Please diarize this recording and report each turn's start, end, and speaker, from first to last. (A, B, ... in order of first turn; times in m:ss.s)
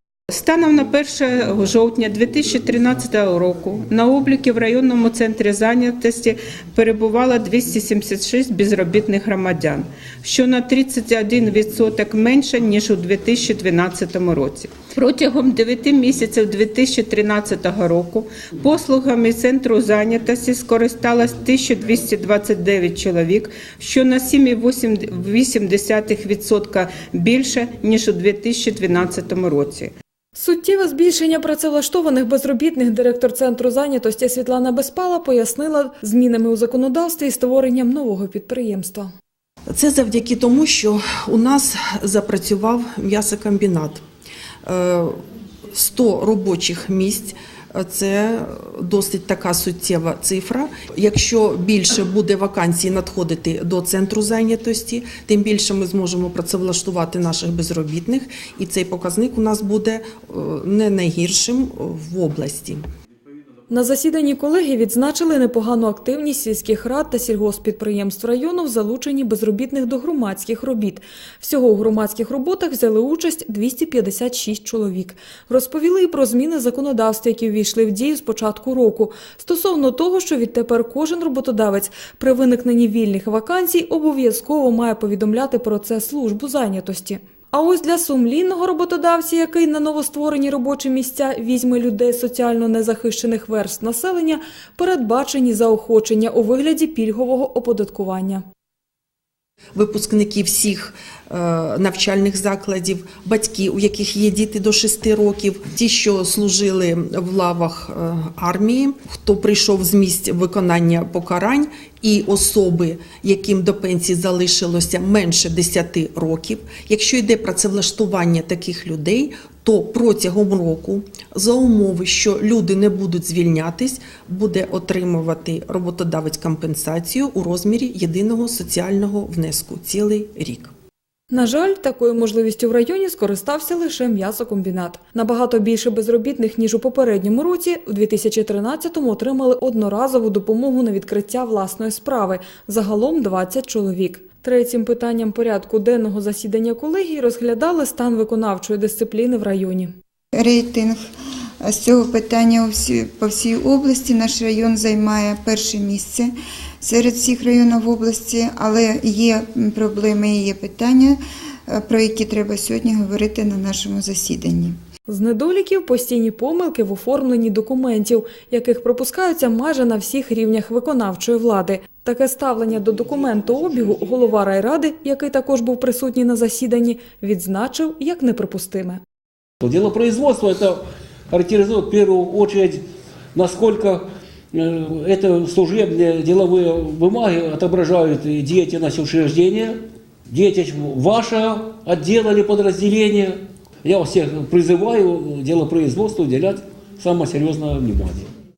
0:00.3-0:29.9 A
0:30.4-0:39.1 B
0:39.7-0:44.0 C
0:44.6-0:45.2 C
0:45.7-1:02.8 C
1:03.7-1:38.4 B
1:39.8-2:10.7 C
2:11.3-2:29.9 B
2:30.3-2:31.0 D
2:31.6-2:44.8 D
2:45.1-2:59.0 B
2:59.6-3:02.8 E
3:03.4-3:09.8 E
3:10.3-3:18.3 E